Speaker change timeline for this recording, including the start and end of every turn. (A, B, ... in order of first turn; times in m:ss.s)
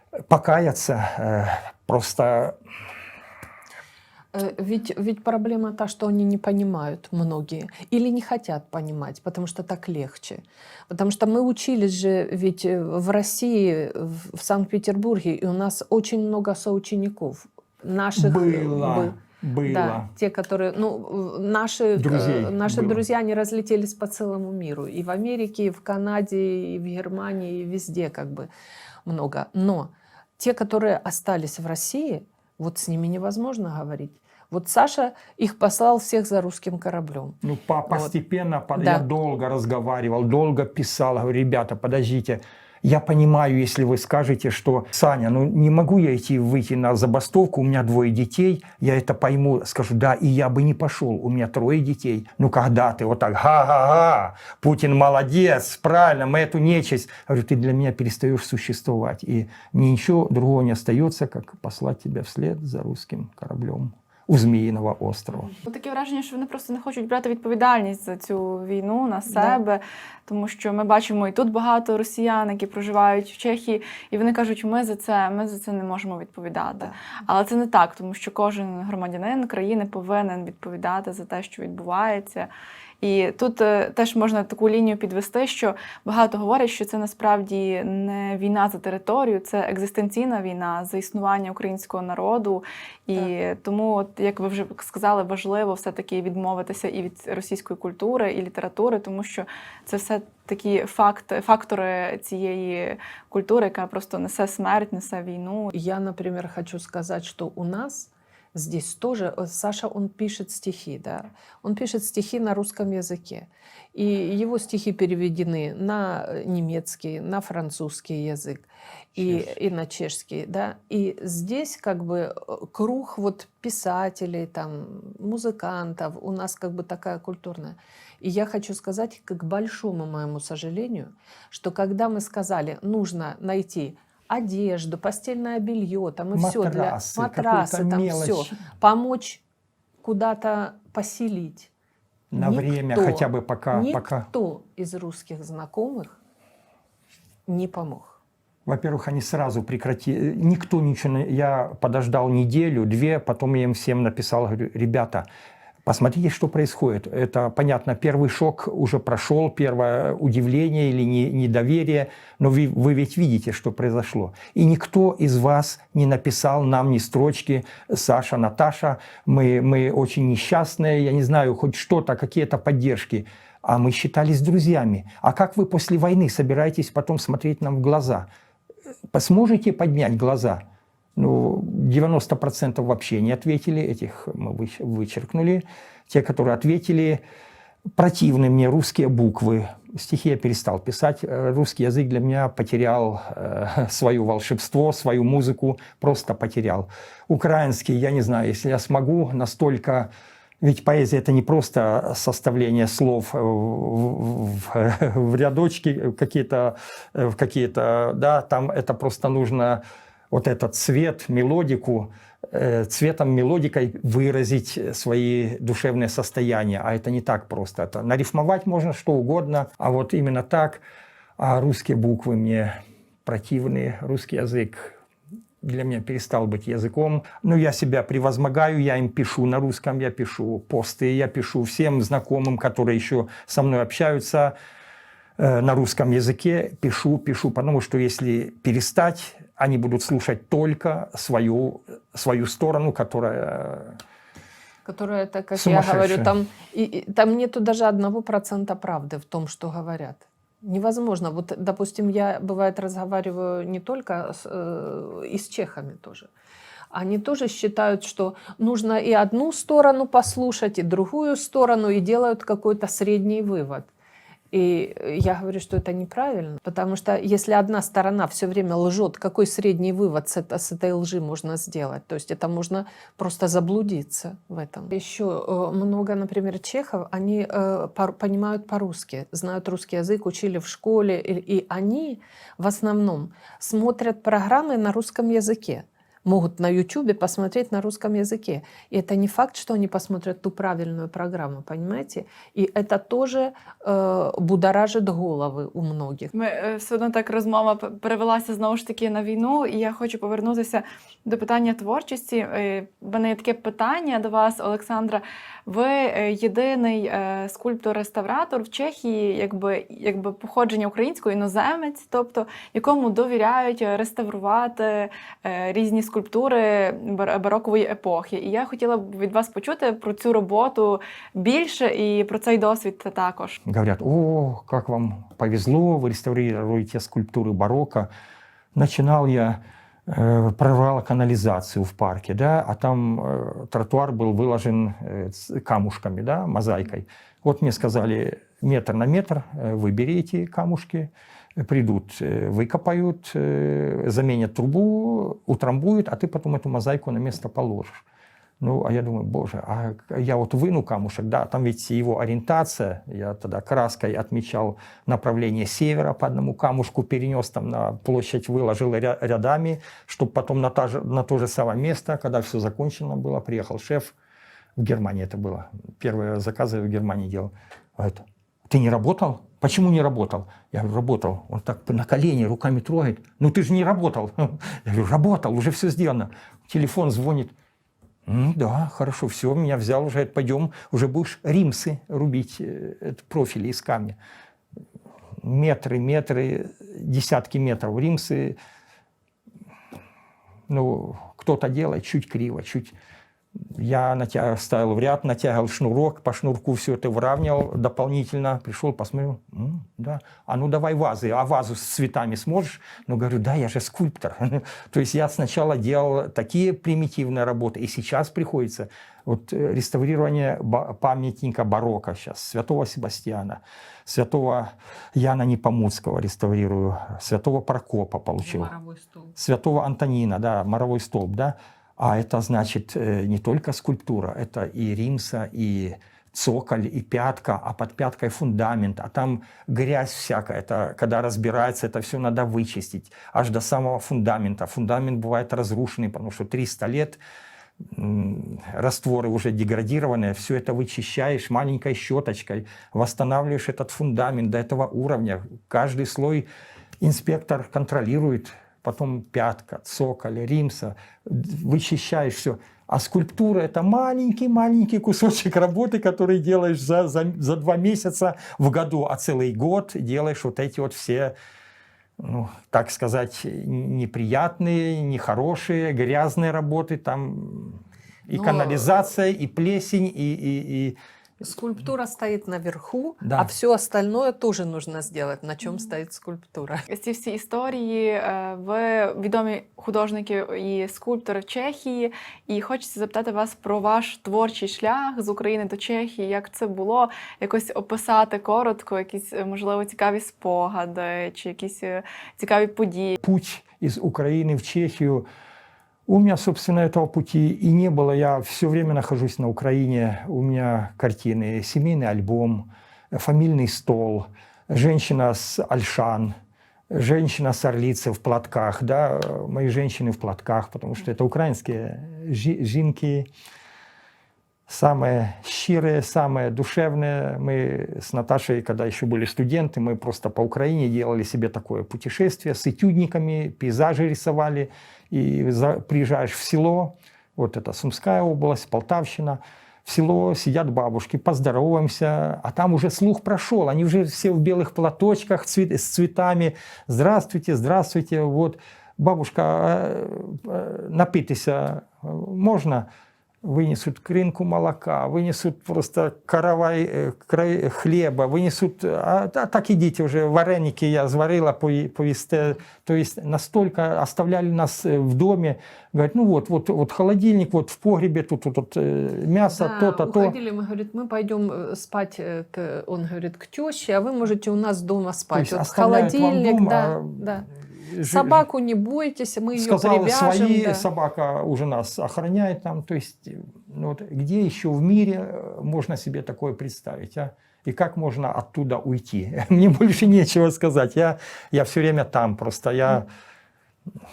0:00.3-0:02.6 A
0:04.3-0:28.5 B
0:18.2-0:20.1 A
0:21.9-0:23.0 A
0:29.0-0:38.1 B
0:37.4-1:05.5 A
0:38.7-0:39.0 B
1:05.5-1:22.5 C
1:09.3-1:09.6 B
1:23.0-1:45.7 C
1:45.7-2:19.4 B
1:59.2-1:59.5 A
2:16.3-2:18.5 A
2:20.0-2:21.7 B
2:22.3-2:24.3 A
2:22.3-2:26.2 B
2:27.5-2:28.2 B
2:28.6-2:35.2 A
2:35.8-2:58.3 A
2:59.1-3:00.6 A
3:01.2-3:07.2 A
3:08.0-3:20.1 A
3:20.6-3:40.8 A
3:41.4-3:45.0 A
3:45.6-3:54.5 A
3:55.4-4:04.0 A
4:04.8-4:16.3 B
4:05.5-4:06.3 A
4:16.9-4:23.9 B
4:24.5-4:56.3 B
4:56.3-5:23.6 C
5:23.6-5:28.1 A
5:28.7-5:48.0 A
5:48.6-6:04.1 A
6:04.8-6:17.5 A
6:18.3-6:24.2 A
6:25.4-6:28.6 A
6:30.7-6:32.9 A
6:33.7-6:58.7 A
6:58.4-6:59.3 B
6:59.4-7:17.2 A
7:17.9-7:26.4 A
7:27.0-7:41.3 A
7:42.2-7:51.0 A
7:48.3-7:49.1 B
7:51.4-7:56.8 B
7:53.2-7:53.5 A
7:56.9-8:13.2 C
8:13.2-8:15.2 A
8:16.1-8:26.4 A
8:26.9-8:33.3 A
8:34.7-9:02.8 A
9:03.4-9:20.3 A
9:19.5-9:30.9 B
9:25.3-9:27.2 A
9:27.8-9:28.4 A
9:29.5-9:43.1 A